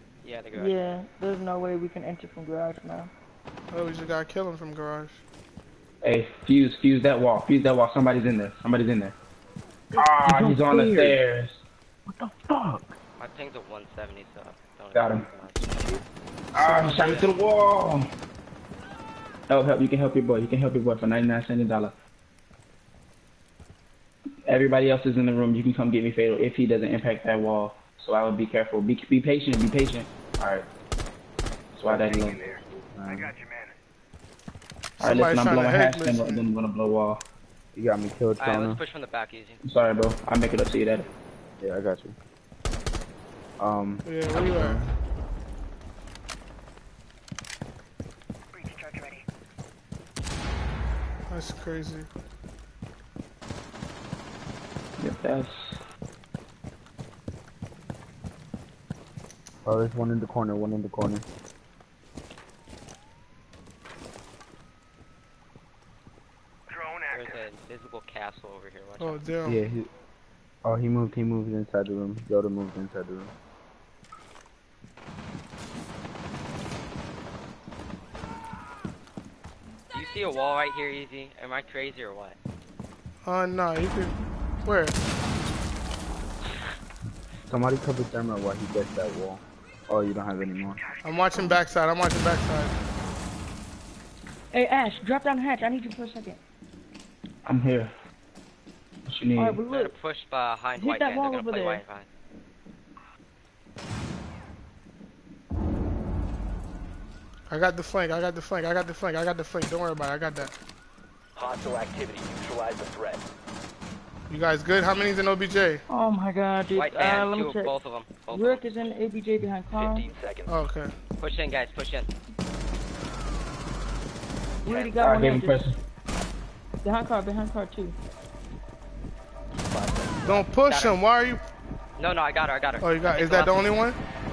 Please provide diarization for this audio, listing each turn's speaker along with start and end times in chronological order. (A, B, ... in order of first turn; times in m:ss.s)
0:00.2-0:00.9 A
0:00.5-0:03.1 B
0:03.7-0:05.2 C
0:06.0-0:09.2 D
0:09.9-0:11.2 E
0:10.0-0:11.6 D
0:12.1-0:13.0 E
0:13.2-0:15.9 A
0:14.9-0:15.3 D
0:16.5-0:18.1 D
0:16.6-0:17.4 A
0:16.6-0:17.2 E
0:19.5-0:21.9 D
0:24.4-0:30.7 D
0:31.7-0:32.4 D
0:31.9-0:33.4 E
0:32.2-0:33.8 F
0:35.0-0:36.4 C
0:35.0-0:37.2 D
0:37.7-0:38.8 E
0:38.4-0:39.6 A
0:39.6-0:41.1 D
0:41.6-0:42.2 E
0:43.6-0:44.9 E
0:44.0-0:44.8 C
0:51.3-0:52.1 C
0:55.0-0:55.8 D
0:59.6-1:01.2 E
1:07.1-1:09.4 A
1:09.0-1:09.6 C
1:09.4-1:09.9 E
1:10.6-1:13.3 E
1:19.9-1:22.4 A
1:23.2-1:24.1 C
1:24.6-1:25.0 C
1:27.5-1:30.8 E
1:31.0-1:32.7 C
1:34.5-1:36.4 B
1:37.4-1:37.9 D
1:39.0-1:39.6 D
1:39.4-1:39.9 B
1:39.7-1:42.1 A
1:40.8-1:41.8 B
1:47.5-1:50.5 C
1:51.3-1:53.2 F
1:54.3-1:55.8 C
1:55.9-1:57.7 B
1:56.7-1:58.9 A
1:58.3-2:00.0 B
1:59.7-2:00.6 F
2:00.5-2:00.9 C
2:01.2-2:02.1 A
2:04.6-2:05.7 B
2:04.6-2:05.4 F
2:05.0-2:05.8 D
2:06.8-2:08.0 B
2:09.6-2:10.5 E
2:10.2-2:11.4 C
2:10.6-2:11.0 A
2:12.0-2:13.8 A
2:12.8-2:14.0 C